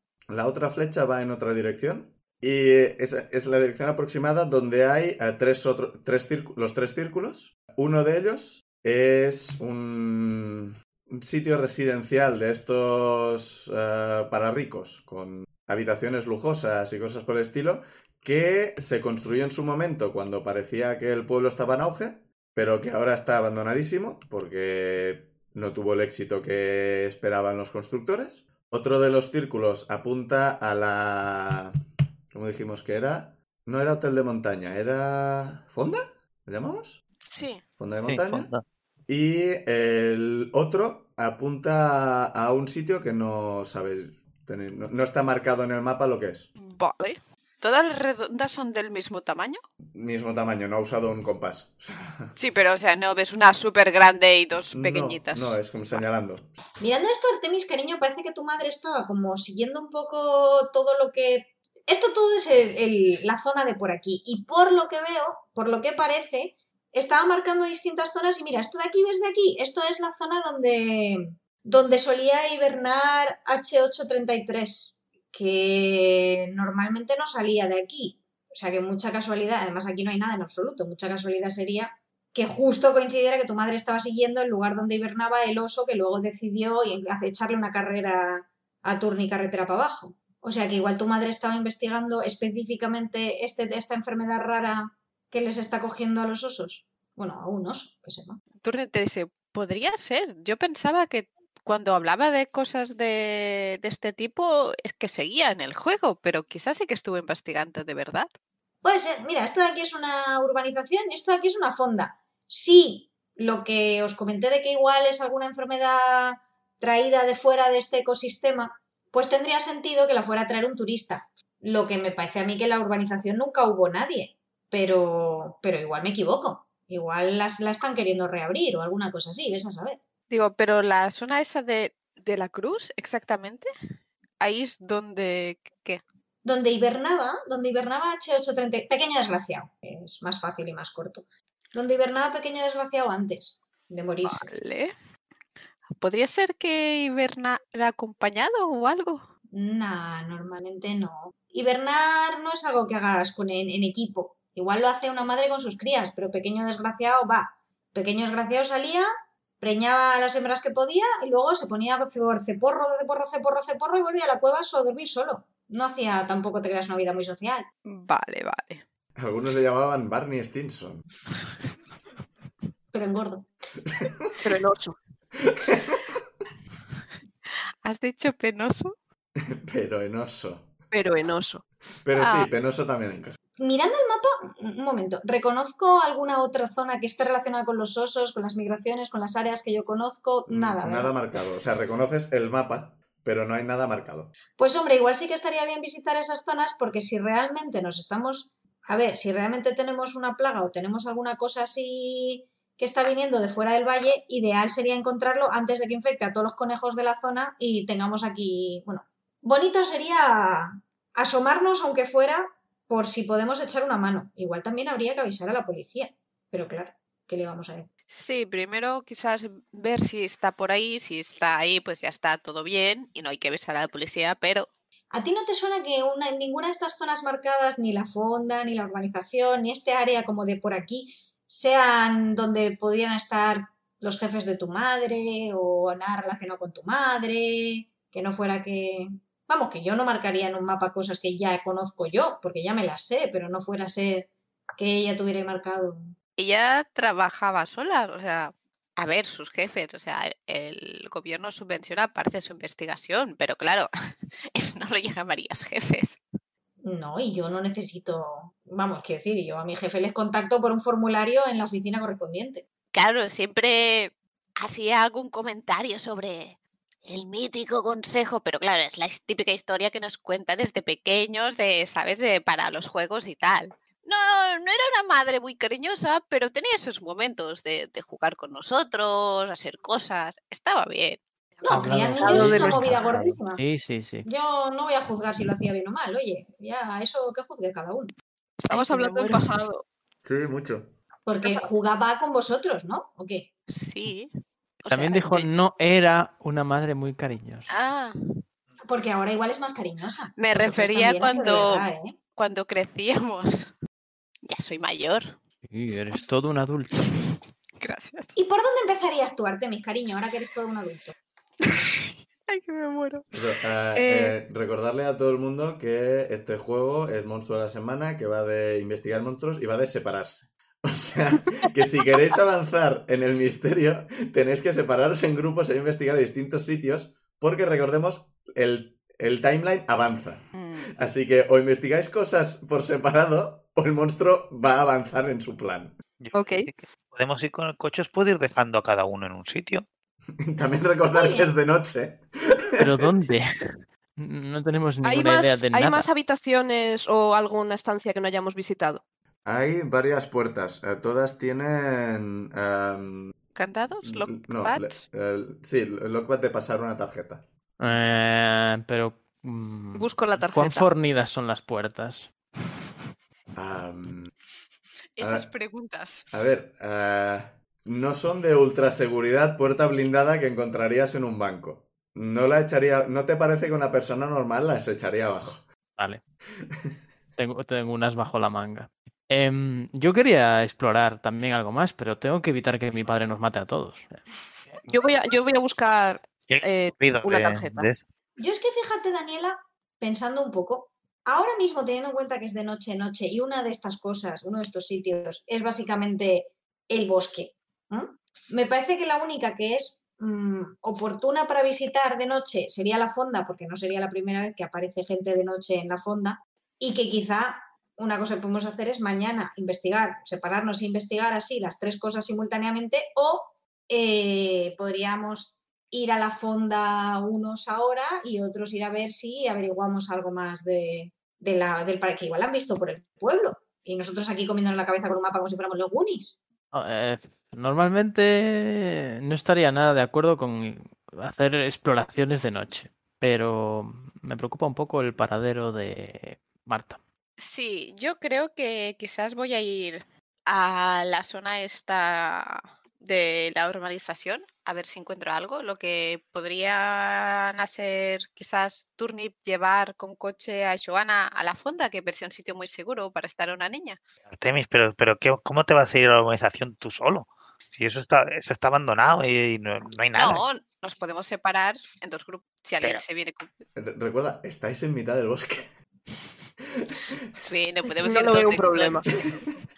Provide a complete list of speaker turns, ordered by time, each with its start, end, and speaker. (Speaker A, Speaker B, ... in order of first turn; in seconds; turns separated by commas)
Speaker A: 0.3-31.7, Speaker A: 32.3-37.0, Speaker B: 37.2-37.6, Speaker A: 37.8-38.5, Speaker C: 38.1-38.6, Speaker A: 39.1-46.5, Speaker B: 46.6-49.6, Speaker A: 49.9-52.3, Speaker B: 52.4-55.6, Speaker A: 54.7-56.6, Speaker D: 56.8-98.4, Speaker B: 98.6-108.3, Speaker D: 108.8-130.0, Speaker B: 130.3-133.7, Speaker B: 134.4-136.0, Speaker D: 136.4-144.5, Speaker B: 144.2-144.9, Speaker B: 146.0-149.3, Speaker D: 149.5-159.1, Speaker D: 159.6-167.7, Speaker B: 167.9-168.8, Speaker A: 169.2-171.1, Speaker D: 172.9-173.5, Speaker A: 173.9-174.3, Speaker E: 174.4-175.0, Speaker A: 175.4-176.1, Speaker B: 177.8-178.9, Speaker A: 179.4-180.7, Speaker E: 180.9-182.5, Speaker A: 182.0-183.4, Speaker D: 183.6-191.2, Speaker A: 190.5-194.3, Speaker D: 194.6-217.9, Speaker B: 218.1-224.7, Speaker D: 225.1-246.1, Speaker B: 246.4-253.9, Speaker B: 254.5-256.2, Speaker D: 256.8-262.6, Speaker B: 262.9-281.2, Speaker D: 281.6-283.6, Speaker F: 281.7-284.3, Speaker E: 282.2-282.9, Speaker D: 284.2-288.1, Speaker E: 288.6-289.9, Speaker B: 288.7-289.3, Speaker A: 290.2-290.9, Speaker D: 291.3-293.5, Speaker B: 291.4-291.7, Speaker B: 293.7-294.3, Speaker B: 294.8-295.5, Speaker F: 294.9-297.7, Speaker B: 297.7-298.2, Speaker D: 298.9-302.1, Speaker B: 300.4-303.7, Speaker B: 304.4-305.4, Speaker F: 305.7-307.1, Speaker B: 307.8-308.3, Speaker D: 308.4-311.1, Speaker B: 311.6-313.3, Speaker A: 313.3-336.0, Speaker B: 313.9-314.4, Speaker B: 330.6-330.9, Speaker C: 336.2-339.9, Speaker E: 336.3-336.7, Speaker A: 340.4-342.3, Speaker D: 341.1-341.5, Speaker A: 342.8-343.1, Speaker F: 342.8-343.5, Speaker F: 344.2-346.1, Speaker E: 345.0-349.0, Speaker A: 349.4-353.4, Speaker B: 353.6-355.0, Speaker A: 354.0-357.4, Speaker F: 357.8-362.3, Speaker E: 359.9-360.9, Speaker A: 363.6-364.3, Speaker B: 365.2-366.3, Speaker A: 365.2-365.5, Speaker A: 366.3-375.7, Speaker A: 376.6-376.9, Speaker F: 377.4-384.2, Speaker E: 384.9-387.9, Speaker C: 386.5-388.0, Speaker D: 388.4-426.4, Speaker F: 426.7-437.0, Speaker B: 437.4-454.0, Speaker C: 454.3-460.4, Speaker B: 460.1-463.5, Speaker A: 463.8-465.7, Speaker A: 466.7-467.2, Speaker B: 467.3-469.4, Speaker E: 468.0-469.1